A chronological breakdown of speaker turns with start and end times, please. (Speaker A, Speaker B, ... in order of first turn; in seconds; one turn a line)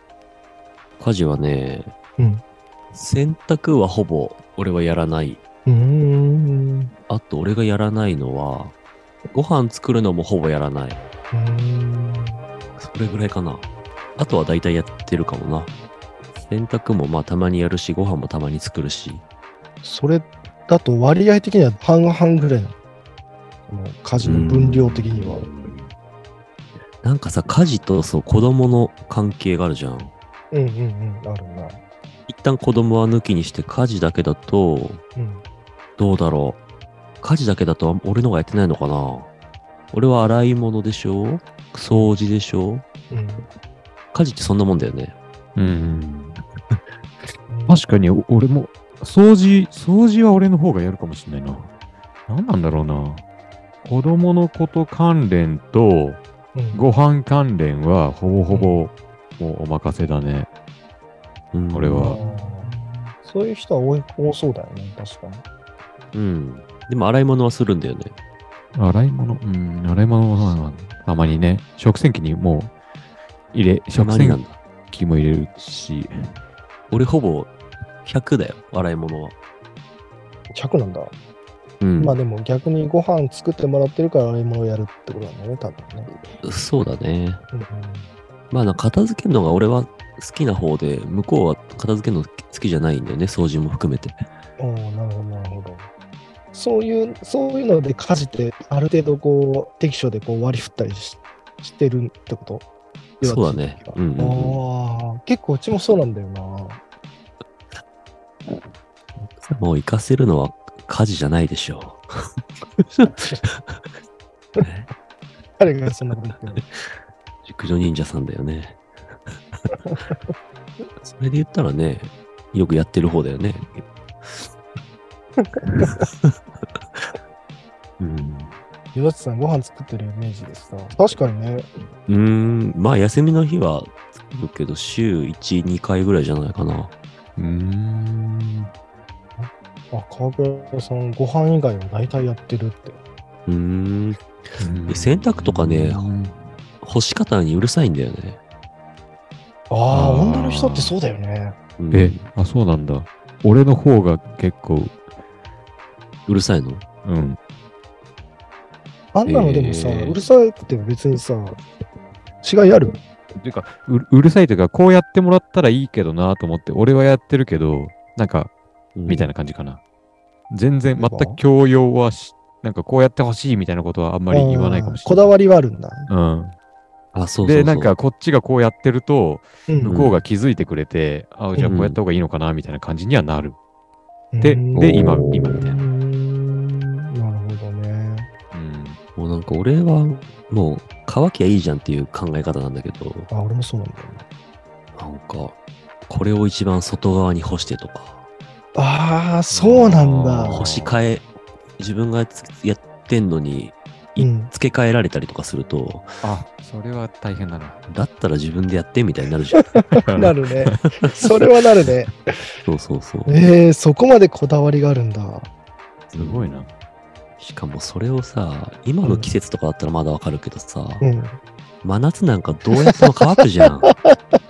Speaker A: 1.0-1.9
Speaker A: 2.9-5.4
Speaker B: 5.7-6.9
Speaker A: 7.1-8.7
Speaker A: 9.3-11.0
Speaker B: 11.3-12.4
Speaker A: 12.8-15.7
Speaker A: 16.4-19.2
Speaker B: 19.8-22.8
Speaker B: 23.7-25.5
Speaker A: 24.2-25.9
Speaker A: 27.0-30.1
Speaker B: 30.5-31.8
Speaker A: 32.3-35.0
Speaker B: 35.1-35.4
Speaker A: 36.0-36.6
Speaker A: 37.2-39.3
Speaker A: 39.9-42.8
Speaker B: 43.1-43.5
Speaker A: 44.1-45.1
Speaker C: 45.5-46.4
Speaker B: 47.5-47.8
Speaker C: 47.7-51.7
Speaker C: 52.3-53.2
Speaker C: 53.8-60.5
Speaker B: 56.5-56.8
Speaker B: 58.5-58.8
Speaker A: 61.5-62.2
Speaker C: 61.7-62.3
Speaker B: 62.0-65.4
Speaker A: 66.1-68.1
Speaker C: 68.7-72.7
Speaker C: 73.5-76.3
Speaker A: 74.0-74.6
Speaker A: 76.9-77.5
Speaker A: 78.0-79.3
Speaker B: 80.5-81.1
Speaker A: 81.8-82.2
Speaker B: 82.0-86.1
Speaker A: 86.4-87.4
Speaker B: 87.5-88.1
Speaker A: 88.5-94.2
Speaker B: 94.6-95.9
Speaker B: 96.5-102.7
Speaker B: 103.2-106.8
Speaker A: 103.2-104.6
Speaker A: 109.4-112.0
Speaker A: 112.8-113.8
Speaker B: 115.6-116.6
Speaker A: 117.4-119.6
Speaker B: 119.8-120.2
Speaker A: 121.0-124.5
Speaker B: 125.4-125.9
Speaker A: 125.8-126.3
Speaker A: 128.0-128.6
Speaker B: 128.9-131.7
Speaker A: 132.1-136.9
Speaker C: 137.4-138.7
Speaker B: 139.4-143.0
Speaker A: 143.5-144.3
Speaker C: 144.6-146.5
Speaker A: 144.9-146.1
Speaker A: 146.8-148.4
Speaker B: 149.7-151.6
Speaker C: 149.9-150.9
Speaker A: 151.8-152.2
Speaker C: 151.9-155.0
Speaker A: 156.3-156.8
Speaker C: 157.0-157.4
Speaker B: 159.1-161.6
Speaker A: 159.3-160.1
Speaker C: 159.8-160.1
Speaker B: 162.4-163.0
Speaker C: 163.4-168.5
Speaker A: 168.9-169.3
Speaker C: 169.1-169.8
Speaker C: 170.5-175.3
Speaker B: 170.9-171.4
Speaker B: 174.3-176.1
Speaker C: 176.1-176.5
Speaker A: 177.1-177.9
Speaker C: 177.4-183.6
Speaker B: 179.7-180.0
Speaker A: 179.8-180.2
Speaker A: 181.7-182.0
Speaker B: 184.3-188.3
Speaker C: 184.4-185.8
Speaker A: 184.8-185.7
Speaker C: 188.5-189.0
Speaker A: 189.2-193.3
Speaker B: 193.3-194.2
Speaker A: 194.9-195.6
Speaker A: 196.1-198.2
Speaker B: 198.7-200.6
Speaker C: 199.5-200.9
Speaker A: 200.5-201.2
Speaker A: 201.8-206.1
Speaker B: 204.2-204.5
Speaker C: 206.2-207.8
Speaker A: 207.9-209.8
Speaker B: 209.6-212.2
Speaker C: 210.0-210.9
Speaker A: 212.6-213.3
Speaker B: 213.2-215.5
Speaker A: 216.1-216.6
Speaker C: 216.1-216.7
Speaker A: 217.4-221.0
Speaker B: 219.0-219.3
Speaker B: 221.0-221.4
Speaker A: 221.8-223.9
Speaker B: 222.8-224.1